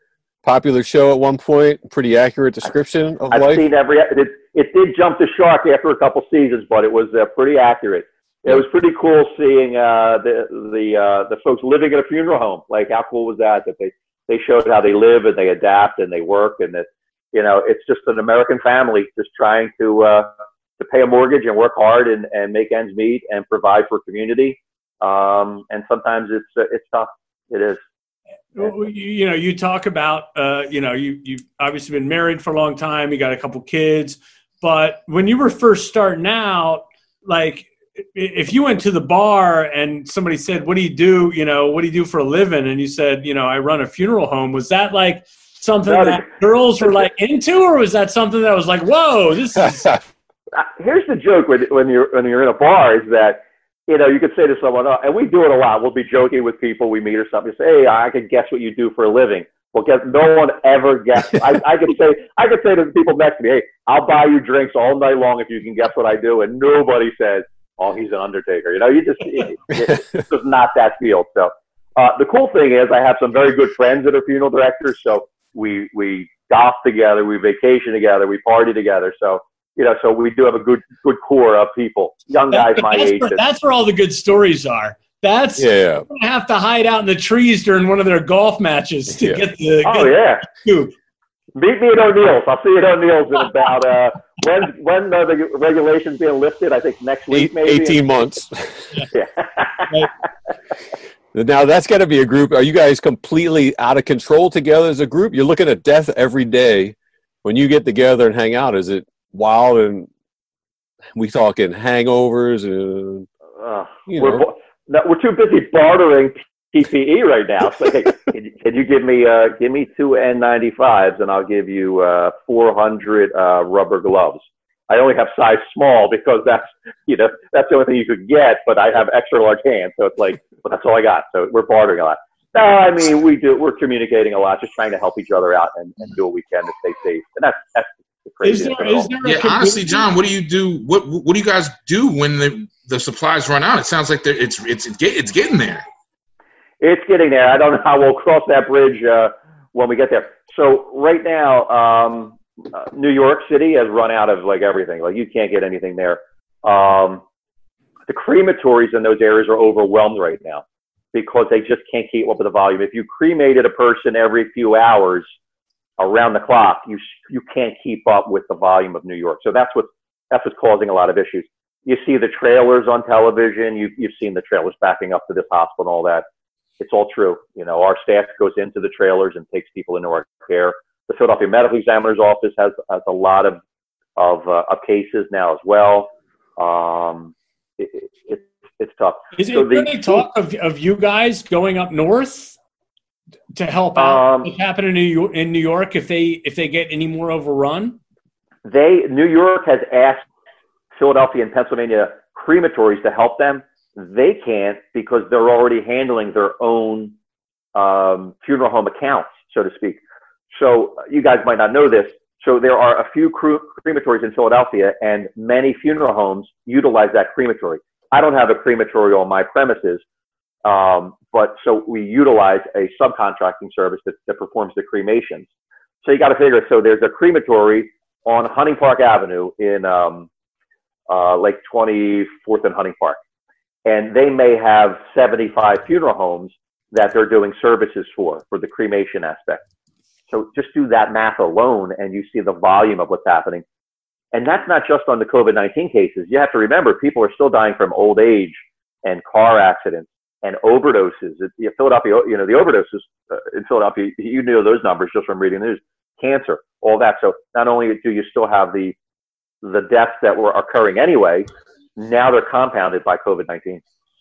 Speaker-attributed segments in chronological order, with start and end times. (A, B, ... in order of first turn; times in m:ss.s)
0:00.4-0:03.7 A
0:03.3-0:27.8 B
0:28.5-0:50.0 C
0:45.9-0:46.2 B
0:50.5-1:23.4 B
1:22.5-1:30.9 C
1:25.6-1:26.0 A
1:29.1-1:29.4 A
1:29.8-1:30.4 B
1:31.6-1:38.3 B
1:37.3-1:39.0 A
1:39.1-1:40.1 B
1:41.3-1:50.1 A
1:51.1-1:53.3 A
1:53.6-2:19.1 B
1:54.1-1:54.4 A
2:18.4-2:20.1 C
2:19.2-2:25.8 D
2:26.8-2:37.2 B
2:38.1-2:45.3 B
2:46.0-2:56.2 B
2:56.8-3:03.6 B
3:04.2-3:10.2 B
3:09.4-3:12.6 C
3:13.5-3:18.0 C
3:14.0-3:14.5 B
3:18.6-3:20.2 B
3:20.9-3:27.1 B
3:27.7-3:30.0 B
3:30.5-3:40.0 B
3:40.6-3:45.5 B
3:46.0-3:50.3 B
3:51.1-3:53.2 B
3:53.9-3:59.6 B
4:00.3-4:03.6 B
4:04.3-4:19.0 B
4:19.6-4:23.8 B